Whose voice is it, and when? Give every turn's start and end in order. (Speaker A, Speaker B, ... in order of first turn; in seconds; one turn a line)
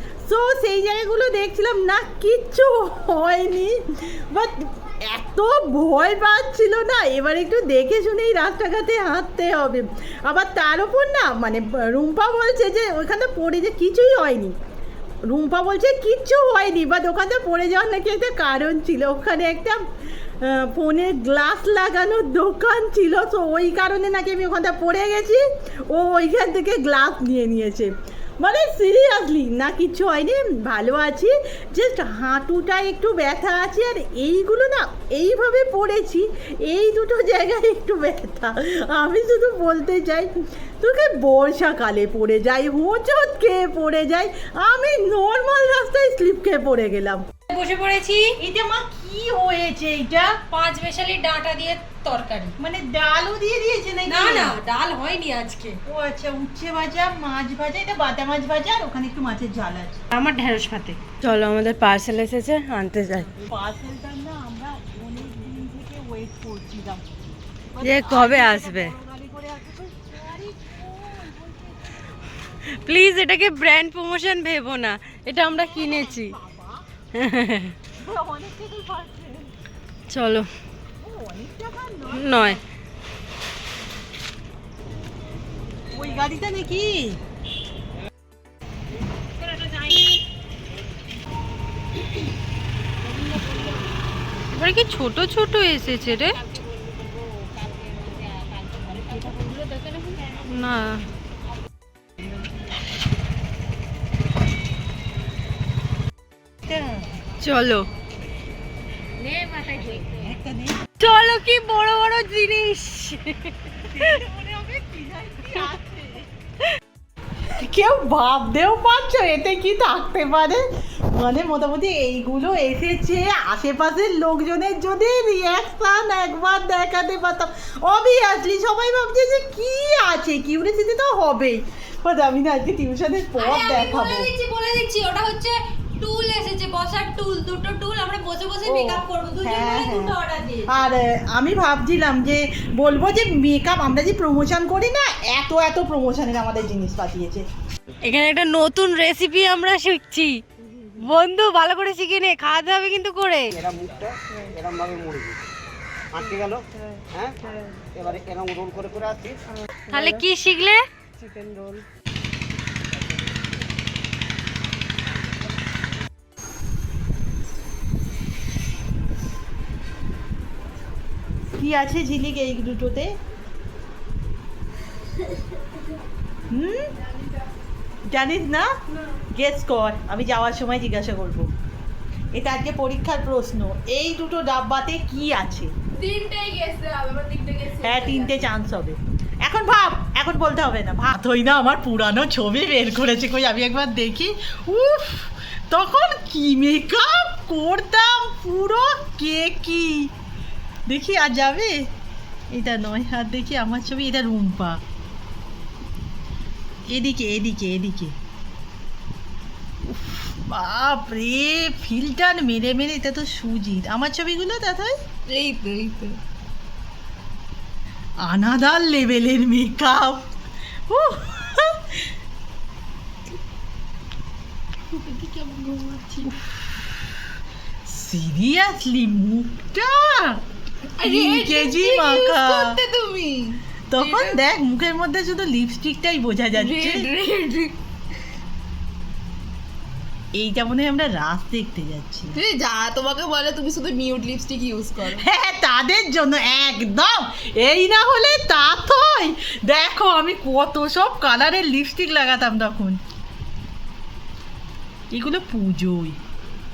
Speaker A: 0.2-14.6
Speaker A: 15.2-47.3
Speaker B: 47.5-48.4
Speaker A: 48.4-50.4
Speaker B: 50.2-52.6
Speaker A: 52.6-54.6
Speaker B: 54.1-55.8
Speaker A: 55.8-60.0
Speaker B: 60.1-63.3
Speaker A: 63.1-67.0
Speaker A: 67.7-72.9
Speaker B: 67.8-68.9
Speaker B: 72.7-76.4
Speaker A: 75.5-76.8
Speaker B: 77.1-77.7
Speaker A: 78.0-79.5
Speaker B: 80.1-80.5
Speaker A: 81.0-82.6
Speaker B: 82.1-82.6
Speaker A: 85.9-87.2
Speaker B: 89.5-90.0
Speaker B: 94.5-96.4
Speaker B: 99.8-101.0
Speaker A: 106.6-107.1
Speaker B: 107.4-107.9
Speaker B: 109.2-110.0
Speaker A: 109.9-110.9
Speaker B: 111.0-114.2
Speaker A: 113.9-116.3
Speaker A: 117.4-134.3
Speaker B: 133.3-140.8
Speaker A: 138.6-147.4
Speaker B: 148.0-150.4
Speaker B: 150.9-153.5
Speaker C: 153.5-155.4
Speaker C: 156.1-159.4
Speaker B: 159.9-160.8
Speaker A: 171.5-173.2
Speaker A: 176.5-176.9
Speaker D: 176.9-177.4
Speaker A: 178.1-178.7
Speaker A: 179.3-181.5
Speaker A: 182.3-185.7
Speaker D: 185.9-188.4
Speaker A: 187.8-200.1
Speaker A: 200.9-201.9
Speaker A: 202.5-204.8
Speaker A: 206.9-208.2
Speaker A: 209.8-215.0
Speaker D: 215.3-216.2
Speaker A: 218.2-220.3
Speaker A: 220.9-222.1
Speaker D: 224.9-226.3
Speaker A: 227.8-230.4
Speaker D: 231.0-234.4
Speaker A: 231.0-232.8
Speaker A: 233.9-237.1
Speaker D: 236.5-237.7
Speaker A: 240.3-242.3
Speaker D: 242.3-245.2
Speaker A: 245.0-253.0
Speaker A: 255.1-256.2